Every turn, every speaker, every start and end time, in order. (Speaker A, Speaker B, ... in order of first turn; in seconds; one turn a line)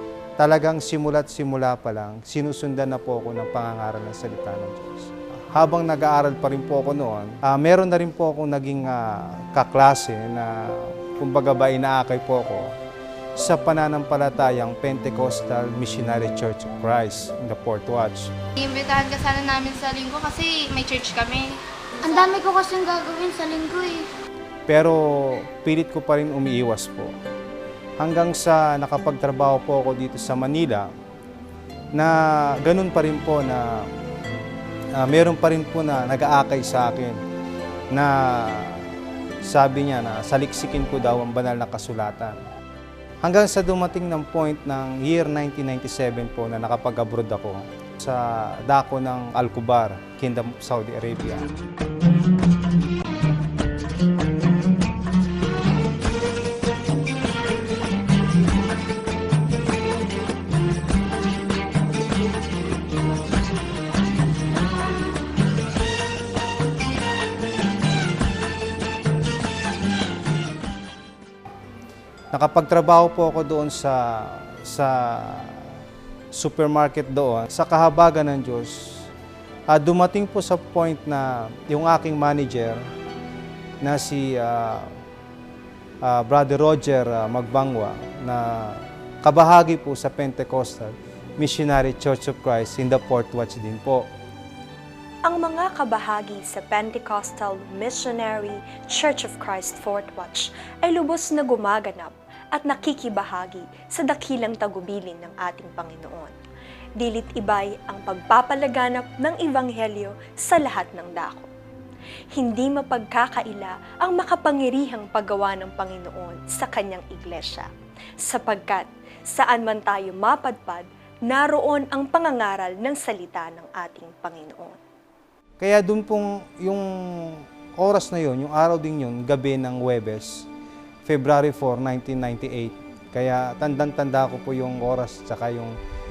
Speaker A: 0.4-12.7
Speaker A: 13.3-18.3
Speaker B: 18.6-22.4
Speaker C: 22.0-24.1
Speaker A: 24.7-27.1
Speaker A: 28.0-30.9
Speaker A: 31.9-33.9
Speaker A: 34.9-37.2
Speaker A: 37.9-42.4
Speaker A: 43.2-51.5
Speaker A: 72.3-75.8
Speaker A: 76.3-79.1
Speaker A: 79.7-82.8
Speaker A: 83.8-84.9
Speaker A: 86.0-94.0
Speaker D: 95.2-106.3
Speaker D: 107.0-111.5
Speaker D: 112.3-117.7
Speaker D: 118.2-124.8
Speaker A: 125.6-130.5
Speaker A: 131.0-135.8